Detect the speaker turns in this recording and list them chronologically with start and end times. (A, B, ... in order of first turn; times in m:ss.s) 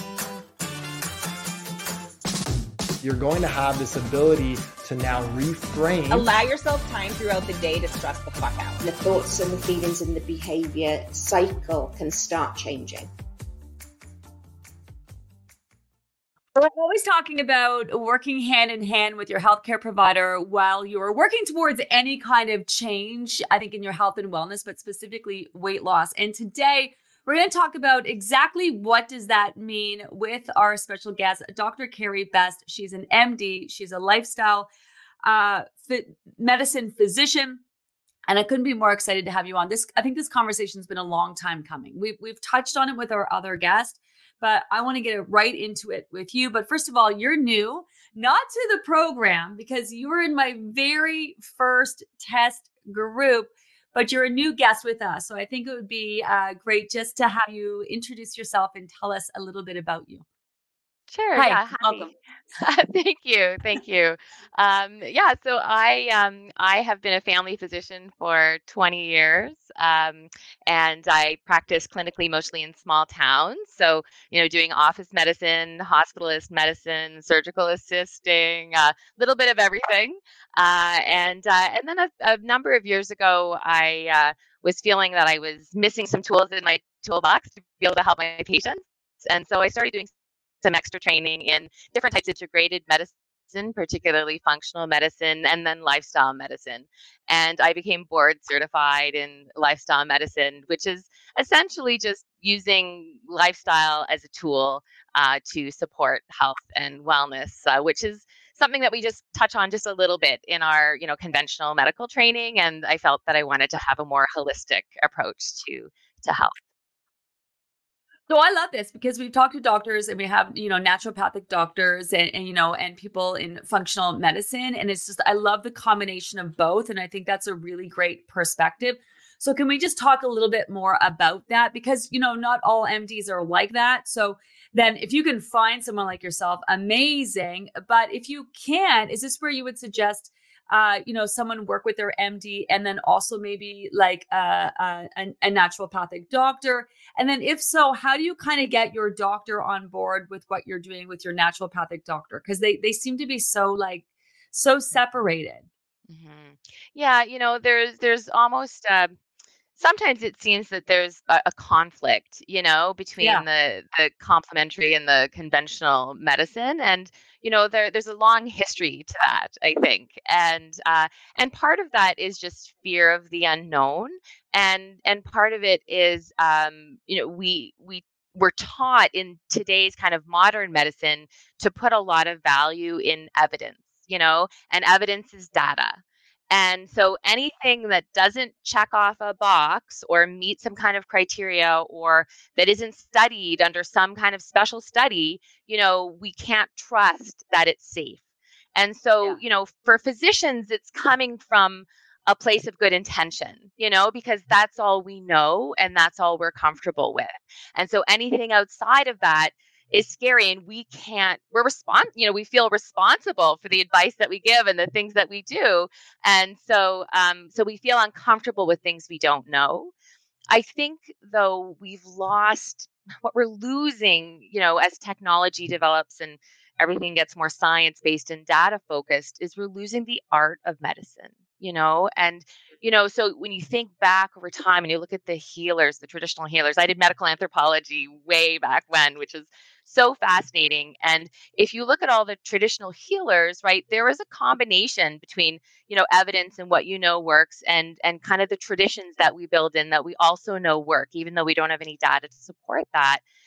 0:03.0-0:06.3 A
0:06.1-0:08.8 B
0:08.8-0:13.1 C
0:16.6-0:34.7 D
0:35.2-0:37.6 D
0:38.3-1:00.2 D
1:01.1-1:30.1 E
1:01.4-1:02.1 D
1:30.6-1:56.5 E
1:58.3-2:35.7 D
2:36.1-2:39.1 E
2:39.8-3:18.2 E
2:43.2-2:43.4 D
3:18.8-3:39.9 E
3:40.5-4:13.2 E